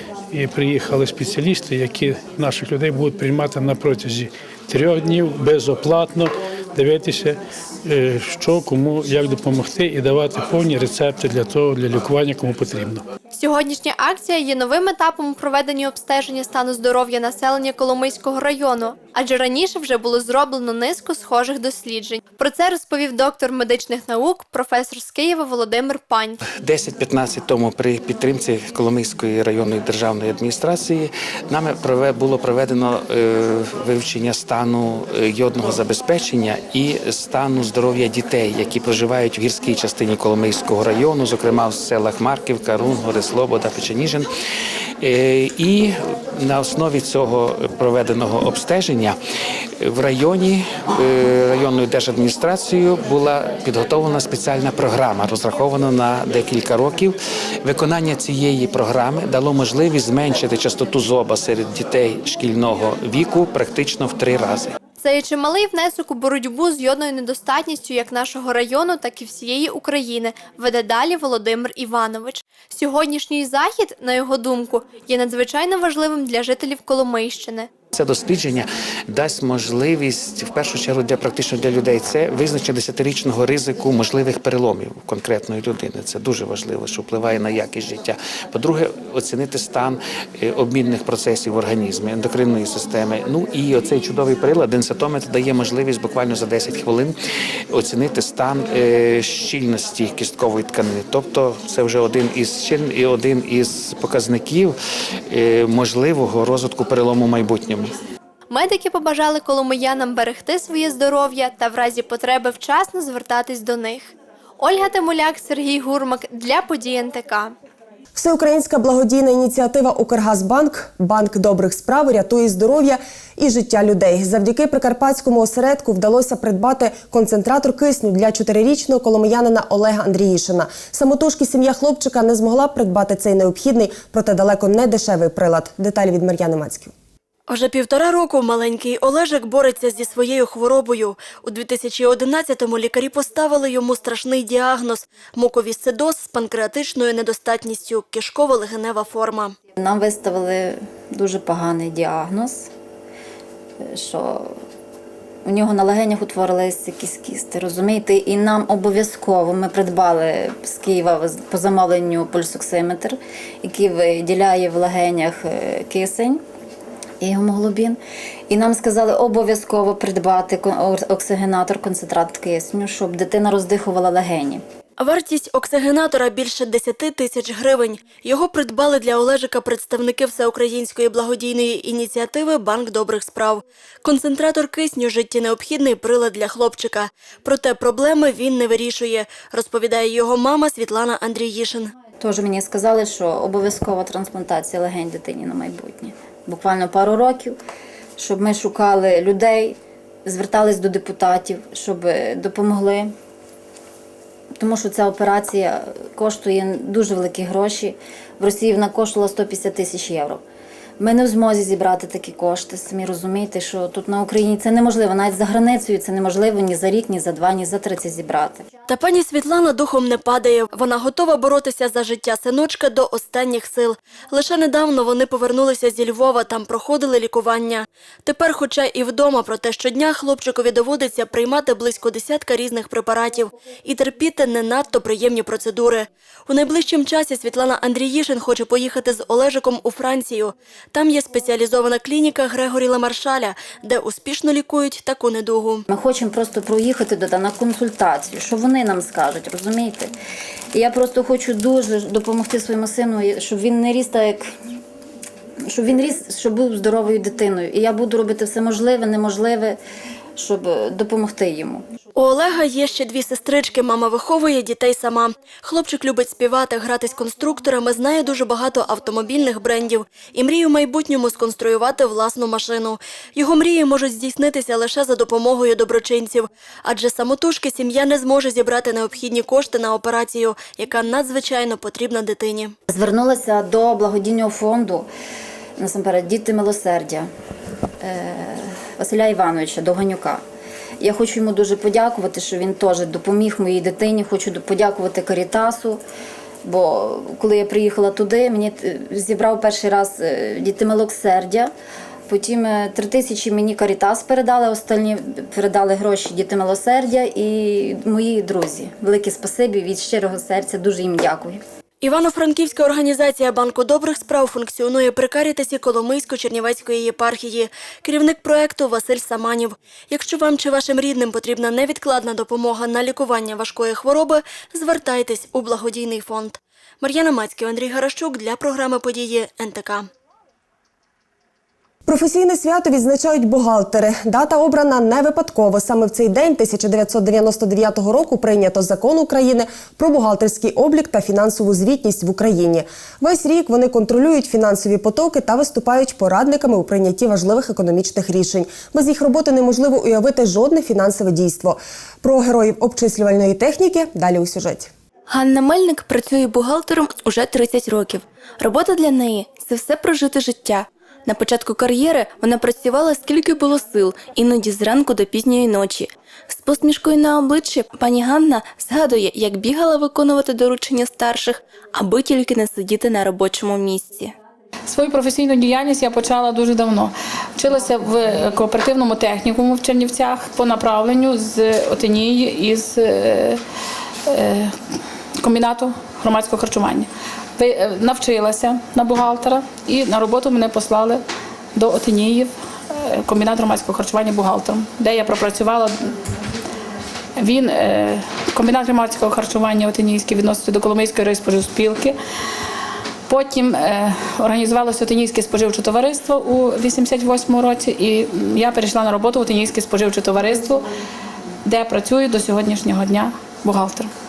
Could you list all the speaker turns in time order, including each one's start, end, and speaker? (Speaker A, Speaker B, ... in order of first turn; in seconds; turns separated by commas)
Speaker A: 0.3-13.0, Speaker B: 13.3-26.4, Speaker C: 26.5-44.3, Speaker C: 45.0-49.2, Speaker C: 49.8-64.8, Speaker B: 65.0-77.7, Speaker C: 77.9-97.2, Speaker C: 97.7-104.8, Speaker C: 105.3-108.0, Speaker B: 108.5-117.5, Speaker D: 118.2-136.9, Speaker E: 137.5-149.6, Speaker F: 149.8-152.7, Speaker F: 153.8-154.5, Speaker F: 155.4-166.4, Speaker F: 167.2-168.0, Speaker F: 168.5-174.6, Speaker E: 175.0-191.9, Speaker F: 192.2-197.6, Speaker F: 198.2-203.1, Speaker F: 204.6-210.4, Speaker F: 211.0-218.7, Speaker E: 218.9-245.8, Speaker F: 245.9-250.1, Speaker F: 250.7-254.5, Speaker F: 255.7-259.8, Speaker F: 260.4-261.9, Speaker E: 262.1-282.8, Speaker F: 282.9-285.1, Speaker F: 285.8-287.3, Speaker F: 288.0-290.4, Speaker F: 291.0-296.0, Speaker F: 296.6-301.7, Speaker F: 302.3-311.6, Speaker E: 312.0-330.1, Speaker D: 332.1-354.9, Speaker G: 355.3-374.3, Speaker H: 374.9-383.6, Speaker H: 384.3-384.8, Speaker H: 385.4-391.2, Speaker H: 391.8-396.1, Speaker H: 397.4-402.2, Speaker H: 403.3-410.9, Speaker H: 411.6-414.1